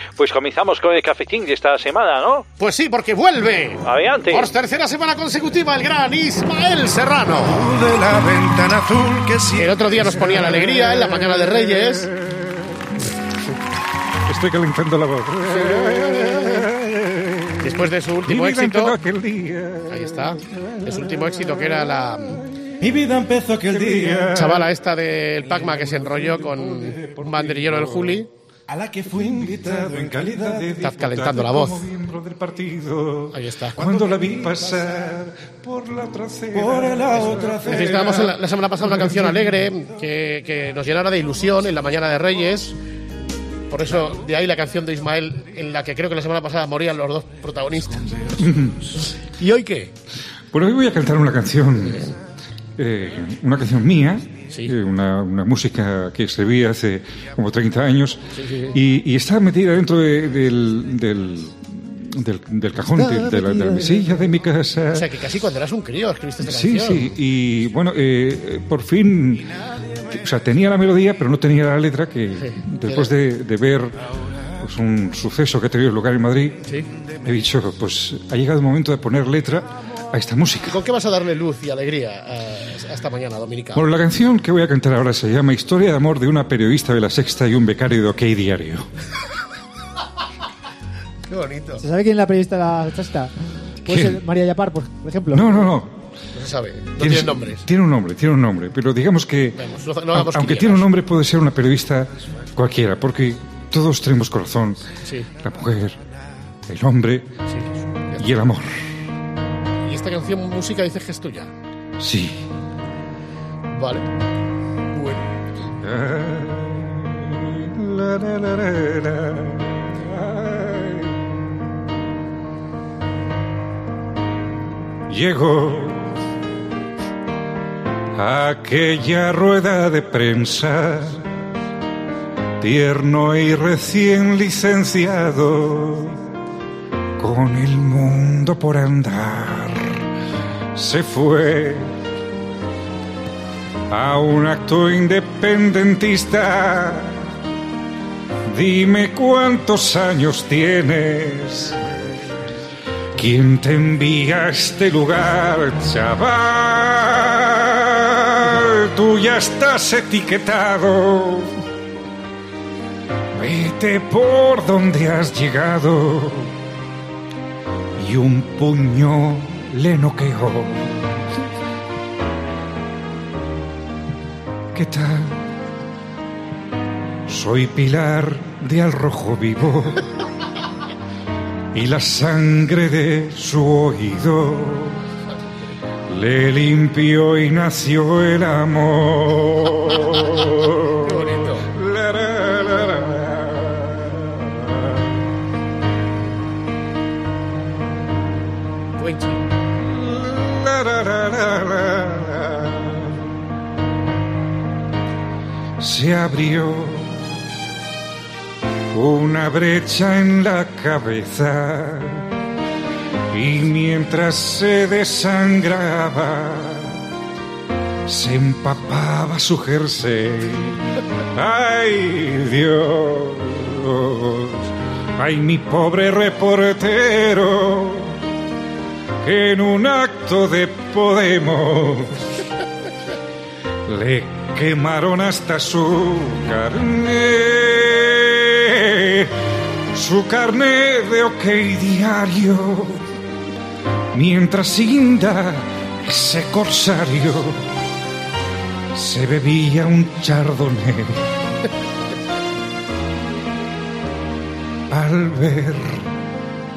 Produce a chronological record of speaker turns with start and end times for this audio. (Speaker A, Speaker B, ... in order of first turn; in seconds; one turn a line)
Speaker A: 0.2-2.4
Speaker B: 2.6-7.7
Speaker A: 3.9-4.4
Speaker C: 7.5-12.4
Speaker B: 9.6-12.1
Speaker C: 14.3-17.7
Speaker B: 15.5-16.7
Speaker B: 17.6-19.0
Speaker C: 18.3-20.2
Speaker B: 19.9-22.4
Speaker C: 23.0-24.6
Speaker B: 24.3-28.3
Speaker C: 25.7-28.1
Speaker C: 28.7-38.4
Speaker B: 30.8-31.8
Speaker B: 33.3-33.8
Speaker B: 37.7-42.8
Speaker C: 39.0-39.3
Speaker B: 43.7-48.4
Speaker C: 48.4-48.8
Speaker B: 49.0-49.9
Speaker C: 50.5-52.1
Speaker C: 52.8-58.2
Speaker B: 58.4-58.8
Speaker C: 58.7-65.1
Speaker D: 62.9-64.3
Speaker B: 64.9-67.1
Speaker C: 66.4-69.5
Speaker C: 70.1-73.9
Speaker B: 72.4-73.1
Speaker C: 74.6-76.6
Speaker C: 77.2-80.8
Speaker B: 80.7-83.8
Speaker C: 83.7-88.8
Speaker B: 91.3-91.8
Speaker D: 91.8-93.3
Speaker D: 93.8-95.6
Speaker C: 93.9-94.2
Speaker C: 95.3-96.0
Speaker B: 96.3-97.6
Speaker C: 97.0-99.6
Speaker B: 99.5-100.9
Speaker C: 100.1-104.8
Speaker C: 105.4-106.0
Speaker C: 106.7-107.3
Speaker B: 107.5-108.2
Speaker C: 108.2-108.7
Speaker B: 109.8-111.5
Speaker C: 112.0-112.4
Speaker B: 113.7-114.0
Speaker B: 114.9-115.2
Speaker C: 115.8-121.2
Speaker C: 125.1-126.1
Speaker C: 128.2-131.2
Speaker C: 132.6-136.2
Speaker C: 137.2-140.0
Speaker C: 140.8-141.9
Speaker C: 143.9-147.2
Speaker C: 148.5-151.8
Speaker C: 153.2-161.5
Speaker C: 163.3-166.5
Speaker C: 168.0-170.9
Speaker C: 174.7-175.3
Speaker C: 177.3-180.0
Speaker C: 181.7-185.0
Speaker C: 186.1-194.7
Speaker B: 191.0-191.7
Speaker B: 199.0-199.4
Speaker C: 199.9-203.1
Speaker C: 205.8-207.2
Speaker C: 208.9-212.2
Speaker C: 213.3-216.9
Speaker C: 218.1-220.8
Speaker C: 221.3-228.1
Speaker C: 229.2-232.2
Speaker C: 233.9-239.3
Speaker C: 239.9-243.0
Speaker C: 244.1-247.6
Speaker C: 248.9-251.2
Speaker C: 254.9-256.1